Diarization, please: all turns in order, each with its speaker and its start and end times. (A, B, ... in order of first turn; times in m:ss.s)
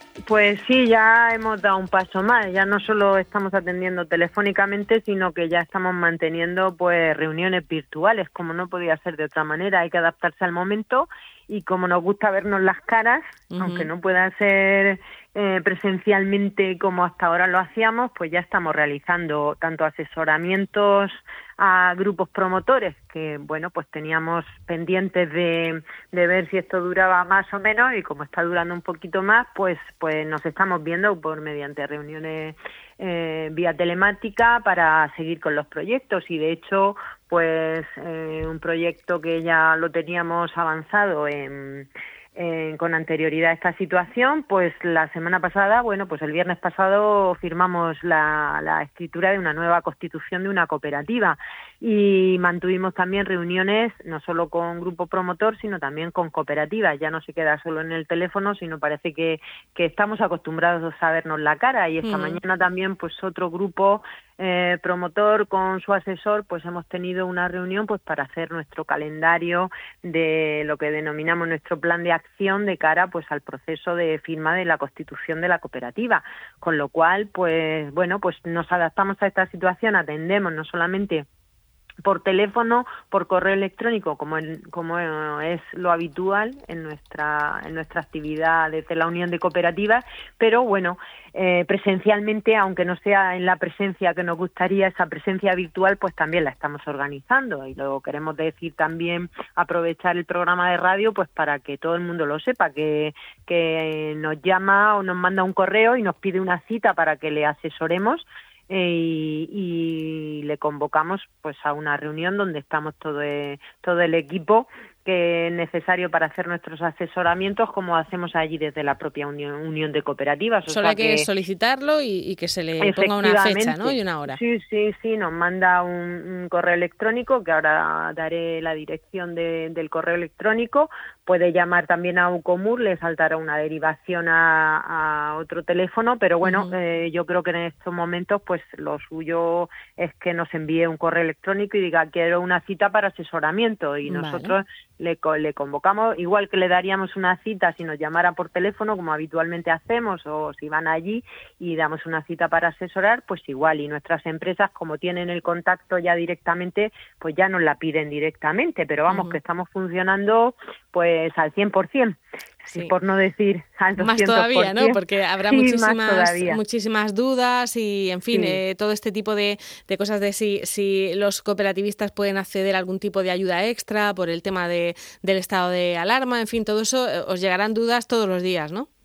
0:00.3-1:21.2 A
0:13.5-0:13.9 B
1:02.0-1:02.4 B
1:22.0-2:01.3 A
2:00.6-2:04.4 B
2:02.8-2:46.6 A
2:16.4-2:16.7 B
2:24.0-2:24.5 B
2:39.1-2:39.4 B
2:44.0-2:58.9 B
2:48.3-2:48.6 A